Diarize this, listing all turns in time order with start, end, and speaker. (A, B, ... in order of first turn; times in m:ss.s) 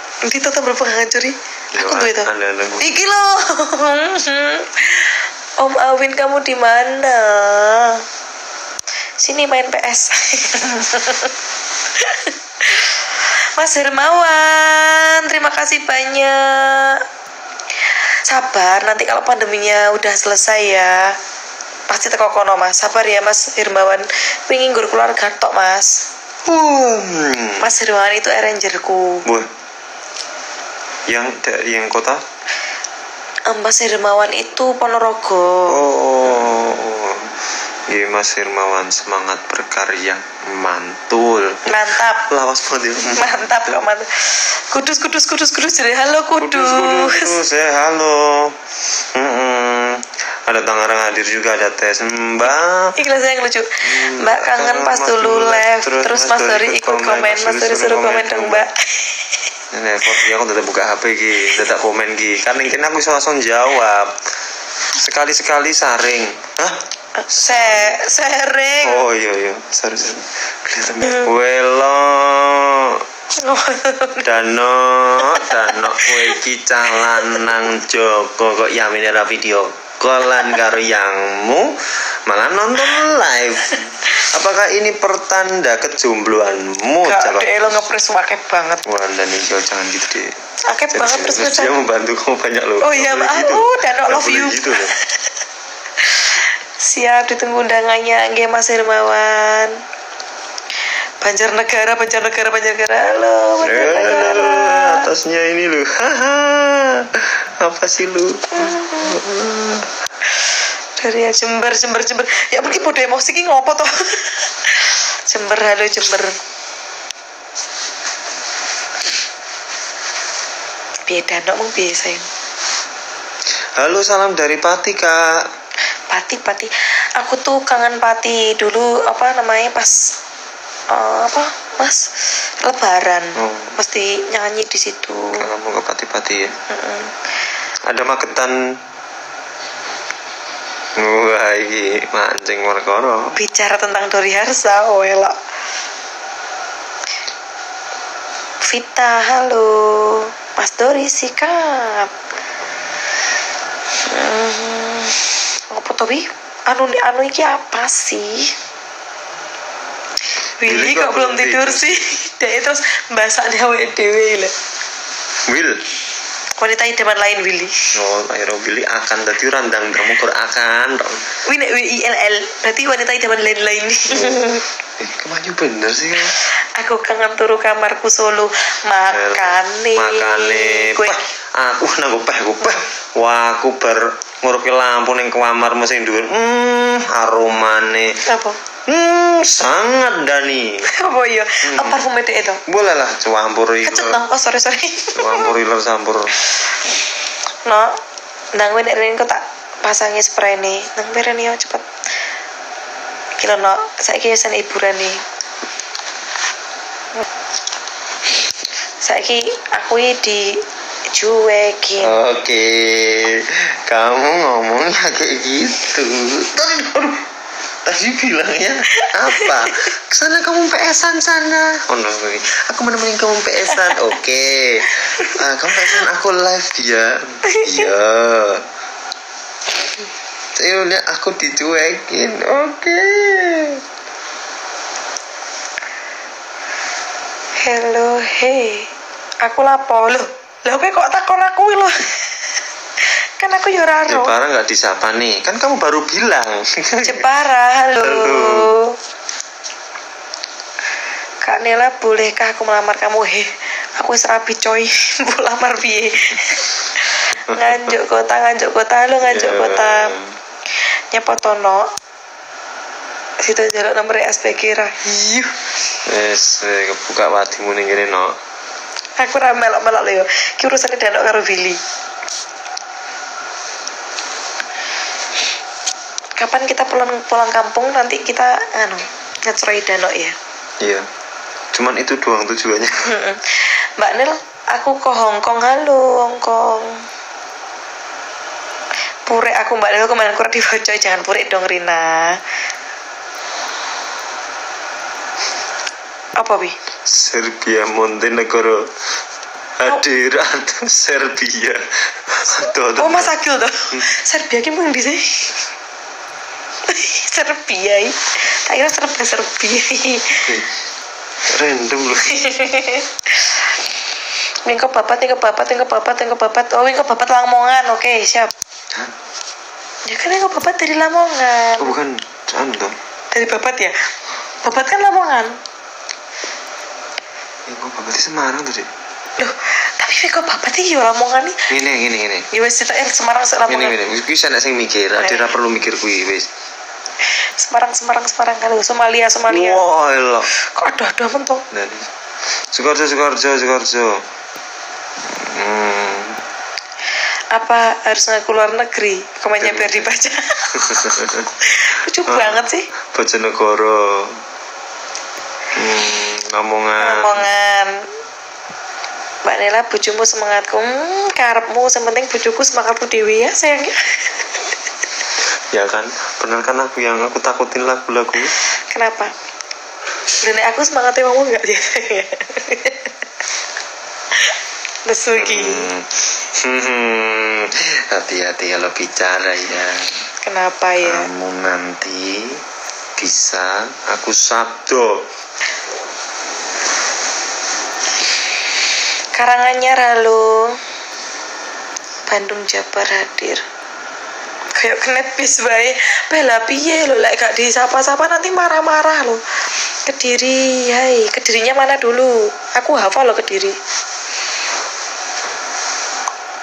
0:00.2-0:02.3 A
0:01.7-0:02.9 B
0:02.8-0:08.0 A
0:09.2-0:11.3 A
0:12.0-0:17.0 A
0:18.3-0:21.2 A
0:21.9-0:26.0 A
0:26.4-0:27.7 B
0:27.6-0:29.3 A
0:31.1-0:32.2 B
0:33.5-0:35.8 A
0:35.7-0:37.3 B
0:37.9-0:43.8 B
0:41.7-0:42.2 A
0:43.2-0:47.4 A
0:46.4-0:48.6 B
0:49.1-0:53.0 B
0:53.0-0:59.4 A
0:53.8-0:58.7 B
0:59.7-1:04.1 B
1:05.0-1:06.8 B
1:07.2-1:09.0 A
1:07.3-1:08.0 B
1:08.8-1:13.0 B
1:13.4-1:14.3 A
1:14.2-1:27.9 B
1:15.4-1:16.1 A
1:17.2-1:17.4 A
1:27.0-1:28.8 A
1:28.8-1:30.4 B
1:30.6-1:31.8 A
1:30.9-1:34.9 B
1:32.8-1:35.2 A
1:36.1-1:39.8 A
1:41.2-1:45.0 A
1:43.6-1:49.9 B
1:48.6-1:49.1 A
1:51.0-1:56.4 A
2:01.1-2:02.3 A
2:03.8-2:05.4 B
2:06.1-2:10.0 A
2:10.9-2:15.5 A
2:13.4-2:13.8 B
2:15.4-2:16.6 B
2:16.7-2:17.1 A
2:17.8-2:18.6 B
2:21.0-2:23.4 B
2:23.4-2:25.4 A
2:28.6-2:32.1 A
2:34.1-2:38.5 A
2:40.6-2:44.5 A
2:40.6-2:42.0 B
2:45.5-2:45.8 B
2:46.6-2:47.9 A
2:47.9-2:51.2 B
2:51.5-2:54.6 A
2:54.1-2:54.5 B
2:55.0-2:56.4 B
2:56.8-3:01.2 A
2:59.1-3:08.1 B
3:08.3-3:08.6 A
3:08.9-3:10.8 B
3:10.9-3:12.6 A
3:11.6-3:12.0 B
3:12.7-3:14.2 B
3:13.8-3:15.6 A
3:15.2-3:16.3 B
3:17.6-3:17.9 A
3:18.6-3:21.8 A
3:23.4-3:25.2 A
3:29.0-3:30.6 A
3:31.1-3:32.2 A
3:32.0-3:37.2 B
3:37.8-3:48.6 B
3:39.0-3:39.5 A
3:47.5-3:47.7 A
3:50.6-3:53.8 B
3:57.6-3:58.9 A
3:59.4-4:02.4 A
4:03.0-4:04.3 A
4:04.1-4:07.2 B
4:07.0-4:09.0 A
4:08.0-4:08.7 B
4:11.4-4:20.2 A
4:17.5-4:17.8 B
4:19.2-4:20.4 B
4:20.8-4:21.9 A
4:23.4-4:25.6 A
4:26.1-4:28.4 B
4:29.2-4:31.8 A
4:36.4-4:40.4 A
4:40.8-4:41.1 B
4:41.7-4:43.1 B
4:43.1-4:47.1 A
4:49.3-4:52.4 A
4:56.4-4:56.8 A
4:57.1-4:58.9 B
4:59.8-5:03.3 B
5:03.0-5:05.5 A
5:06.9-5:10.5 A
5:11.5-5:12.4 B
5:12.2-5:13.6 A
5:14.7-5:18.5 A
5:20.1-5:21.9 A
5:21.8-5:23.0 B
5:23.3-5:24.0 A
5:24.6-5:25.6 A
5:27.7-5:28.9 B
5:29.4-5:31.7 A
5:31.7-5:32.5 B
5:32.5-5:34.0 A
5:33.7-5:36.5 B
5:35.2-5:35.5 A
5:37.3-5:39.8 A
5:39.5-5:40.5 B
5:40.6-5:41.6 A
5:41.7-5:42.1 B
5:42.7-5:44.2 B
5:45.2-5:46.4 B
5:47.5-5:52.9 A
5:49.6-5:50.1 B
5:50.9-5:51.5 B
5:52.3-5:54.4 B
5:55.8-5:57.5 B
5:57.0-5:58.0 A
5:59.4-6:04.6 A
6:05.7-6:08.5 B
6:08.9-6:09.3 A
6:10.4-6:13.1 A
6:15.0-6:15.9 A
6:15.4-6:20.1 B
6:20.4-6:21.3 A
6:21.0-6:22.6 B
6:23.2-6:25.2 B
6:29.4-6:30.8 A
6:32.3-6:33.6 A
6:34.8-6:39.4 A
6:40.0-6:43.8 A